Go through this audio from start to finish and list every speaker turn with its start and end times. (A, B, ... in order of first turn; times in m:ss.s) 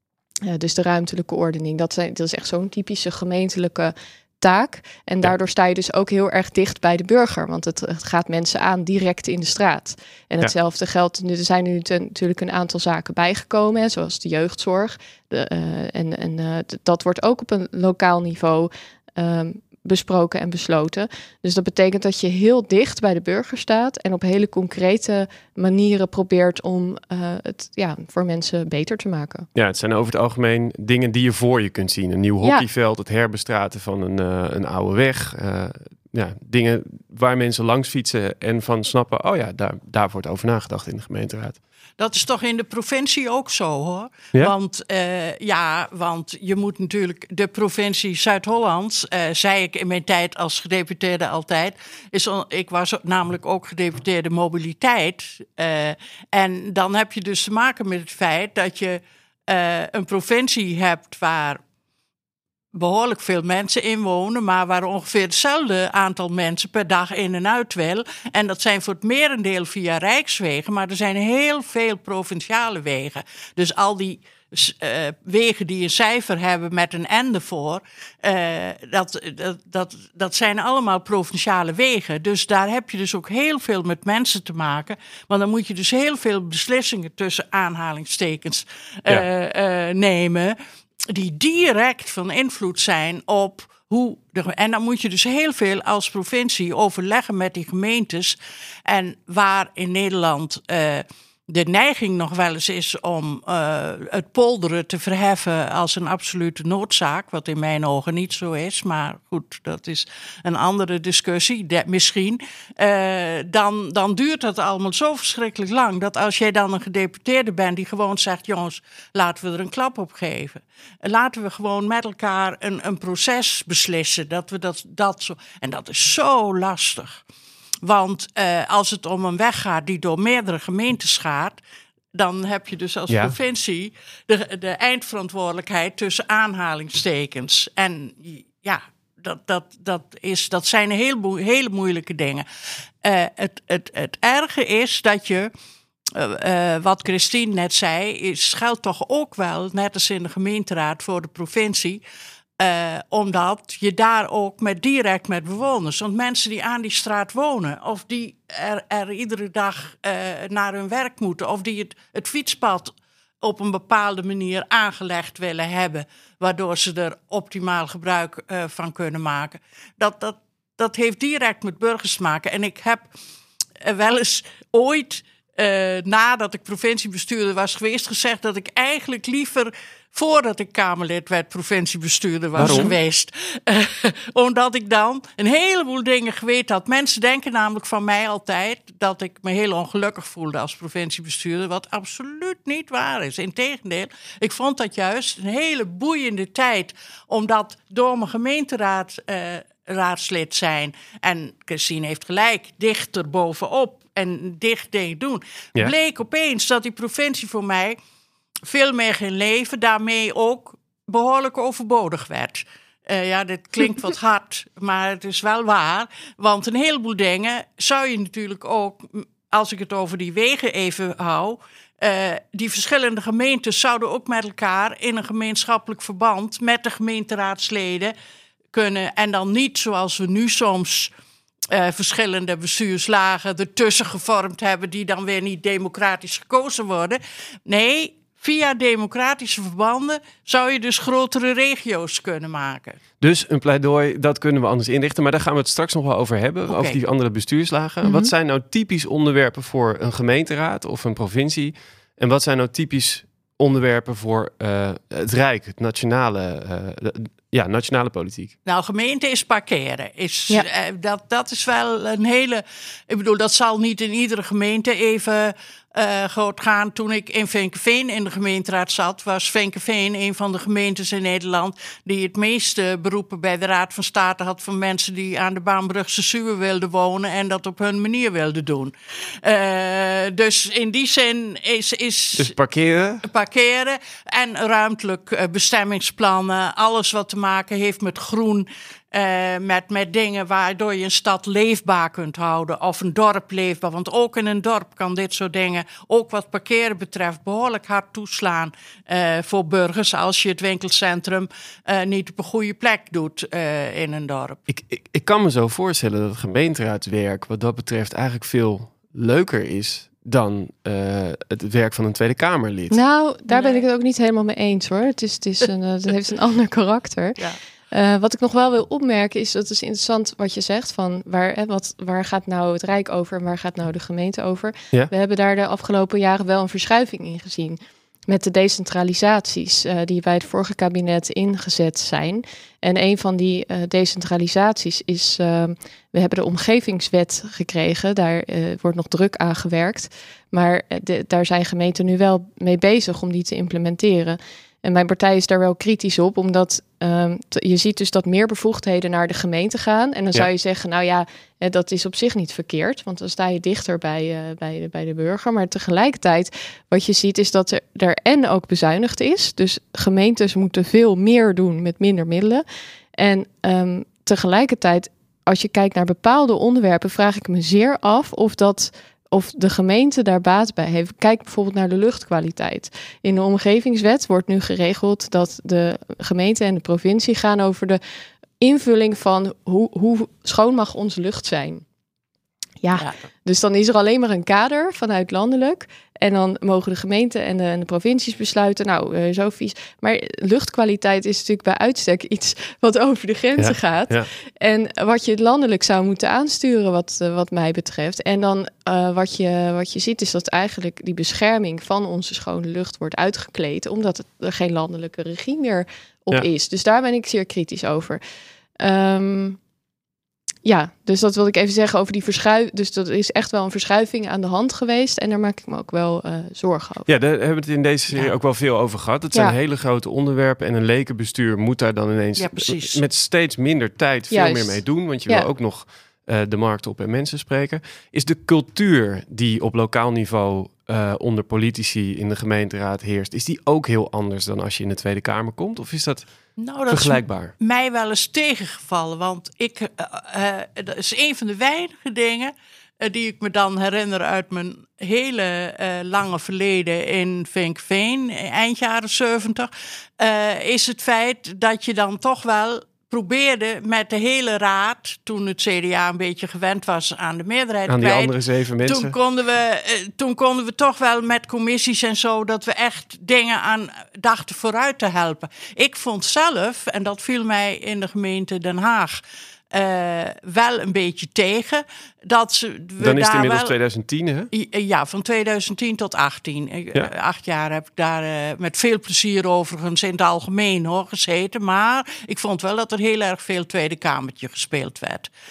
0:00.5-0:29.5 A
0:29.5-0:41.6 B
0:42.0-1:01.6 C
1:02.7-1:30.6 C
1:31.1-2:07.2 C
2:07.8-2:11.6 C
2:12.1-2:22.4 C
2:13.1-2:13.3 B
2:23.0-2:25.5 C
2:26.1-2:32.0 C
2:32.6-2:53.1 C
2:53.8-3:28.0 C
3:02.6-3:03.0 B
3:28.7-3:48.1 C
3:48.7-3:51.1 C
3:51.7-4:03.0 C
4:03.2-4:18.5 B
4:06.7-4:07.0 C
4:08.0-4:08.3 A
4:18.6-4:42.6 C
4:42.4-4:43.2 B
4:43.2-5:04.6 C
5:04.7-5:13.0 B
5:12.9-5:17.4 A
5:13.5-5:13.8 C
5:17.9-6:02.6 A
6:03.2-6:18.0 A
6:18.6-6:21.8 A
6:22.8-6:48.2 A
6:33.6-6:34.3 B
6:48.8-6:49.6 A
6:50.6-6:57.1 A
6:57.1-7:16.3 B
7:02.4-7:03.0 C
7:04.3-7:05.5 A
7:16.6-7:38.3 C
7:16.9-7:17.5 B
7:37.9-7:39.1 B
7:38.8-7:49.2 C
7:49.7-7:53.7 C
7:53.0-7:54.5 B
7:54.5-8:05.3 C